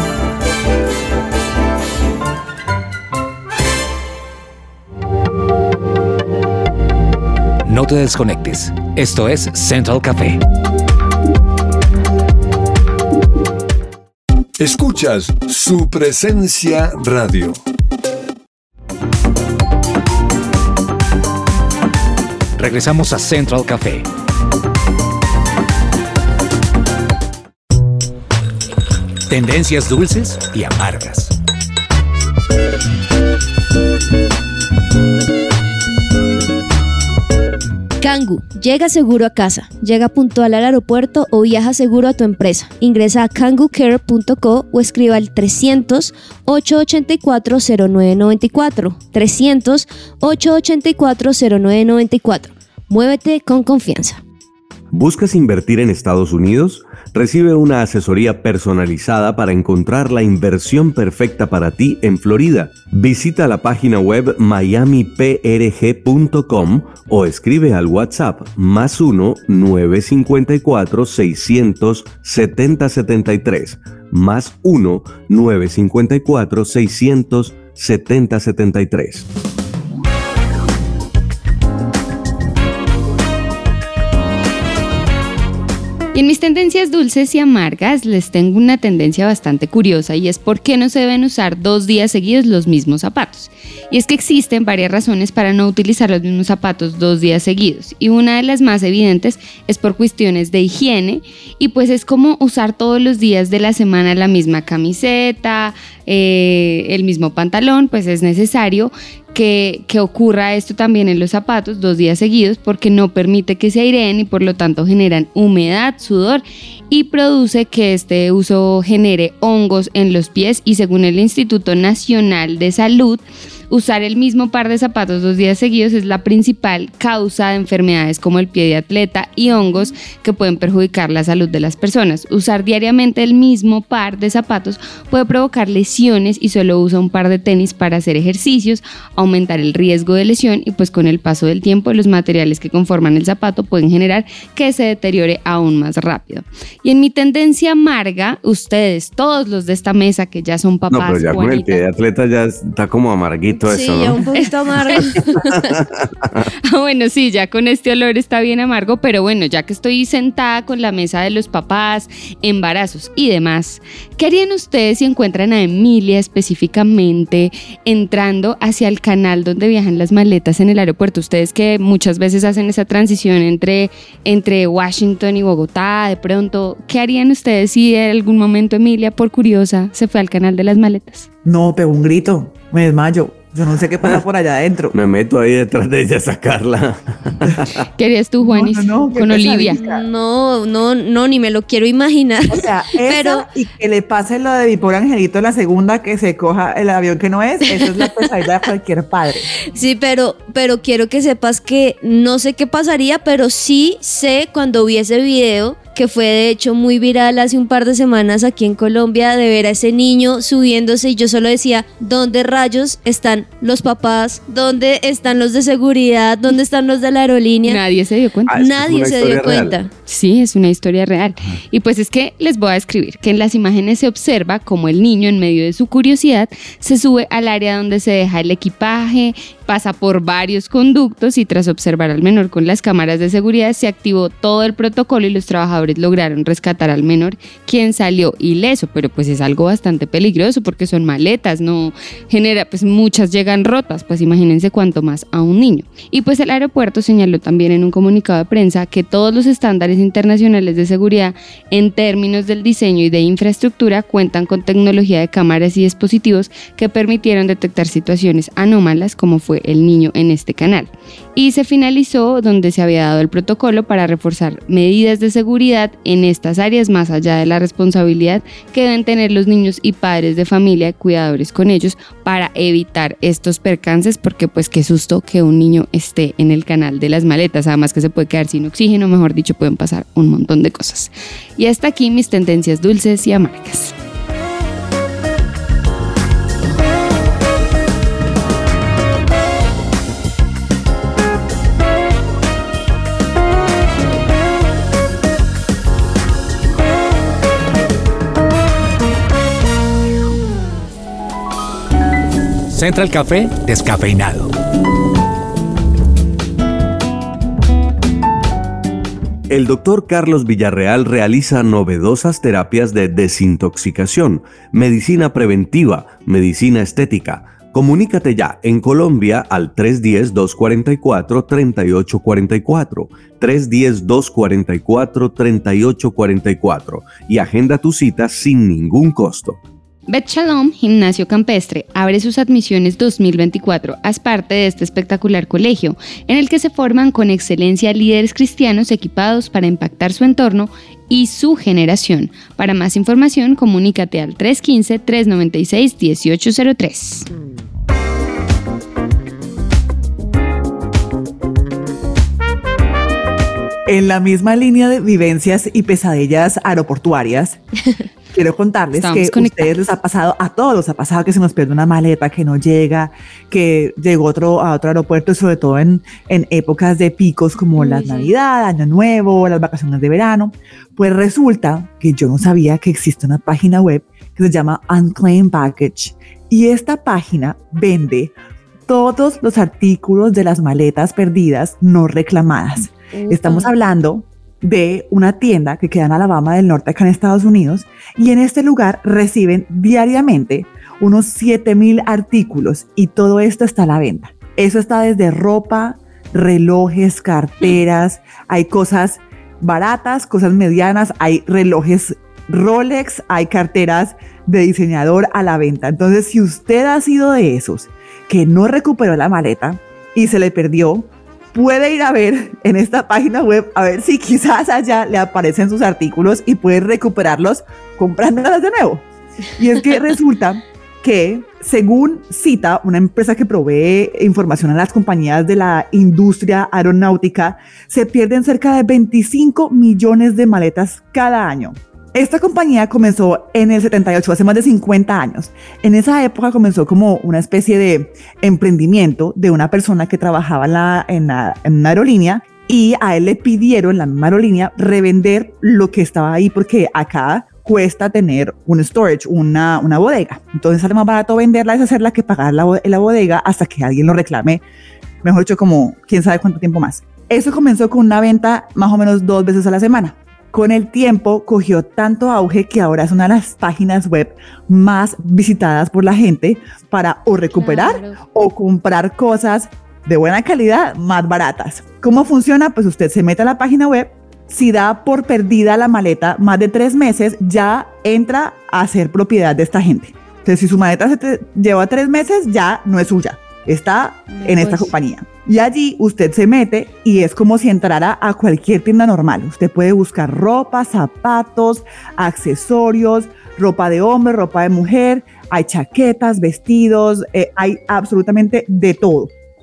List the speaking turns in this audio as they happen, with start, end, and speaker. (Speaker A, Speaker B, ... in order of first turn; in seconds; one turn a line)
Speaker A: 7.7-10.4
Speaker B: 14.6-17.6
Speaker A: 22.6-24.1
Speaker A: 29.3-31.3
Speaker C: 38.0-54.2
Speaker D: 54.9-79.3
Speaker E: 86.1-151.8
Speaker D: 150.9-154.2
Speaker C: 153.6-155.2
Speaker E: 154.9-155.7
Speaker D: 155.3-156.4
Speaker E: 156.7-181.3
Speaker F: 181.4-184.9
Speaker D: 184.9-187.9
Speaker E: 188.0-189.8
Speaker F: 188.4-190.0
Speaker C: 189.7-193.4
Speaker F: 192.5-199.5
Speaker C: 199.6-217.8
Speaker E: 217.6-218.7
Speaker D: 218.5-219.8
Speaker C: 218.5-219.9
Speaker E: 220.1-284.0
Speaker A: 302.7-304.5
Speaker D: 309.5-329.6
Speaker E: 330.1-347.3
Speaker F: 353.9-357.6
Speaker F: 358.3-378.3
Speaker E: 359.0-359.7
Speaker E: 368.0-368.2
Speaker F: 378.9-454.6
Speaker C: 383.2-383.7
Speaker F: 455.2-499.3